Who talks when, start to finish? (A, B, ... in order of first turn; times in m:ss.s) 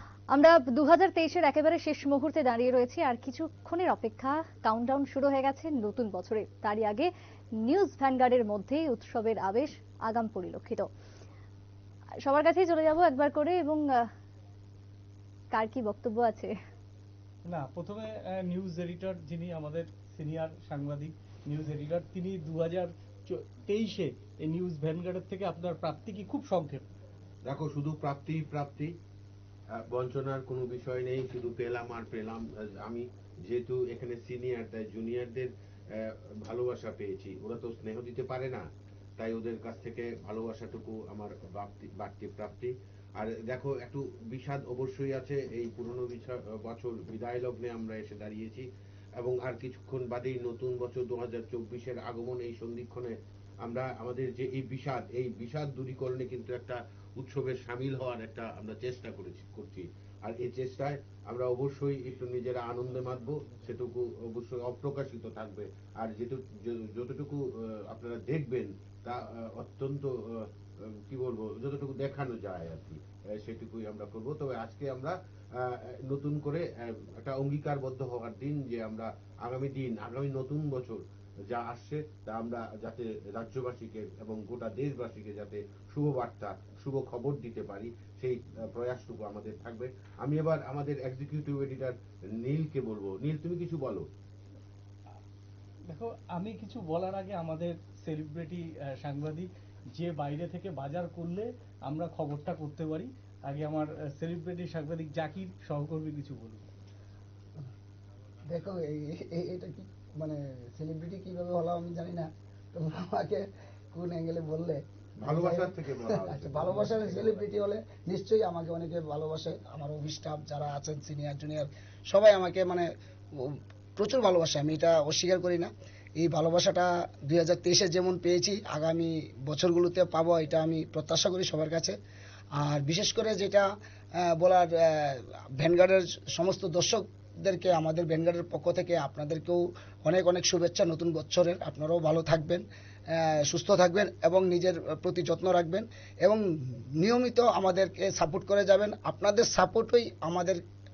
0:00.3-0:07.1 A
0:07.6-0:10.9 A
0:12.2-0:14.1 A
0:15.5-0:16.5 A
0:17.4-0:26.8 B
0:27.5-0:28.9 C
0:29.9-0:35.5 C
0:36.5-0:38.6 C
0:39.2-0:48.6 C
0:49.2-0:53.1 C
0:53.6-1:07.4 C
1:07.9-1:10.0 C
1:11.1-1:15.1 C
1:16.1-1:16.6 C
1:17.2-1:21.0 C
1:21.5-1:31.9 C
1:32.4-1:34.1 C
1:35.9-1:46.6 B
1:48.5-2:02.9 D
1:55.2-1:57.3 C
2:03.5-2:12.0 D
2:12.6-2:13.7 D
2:14.2-2:26.4 D
2:27.0-2:30.6 D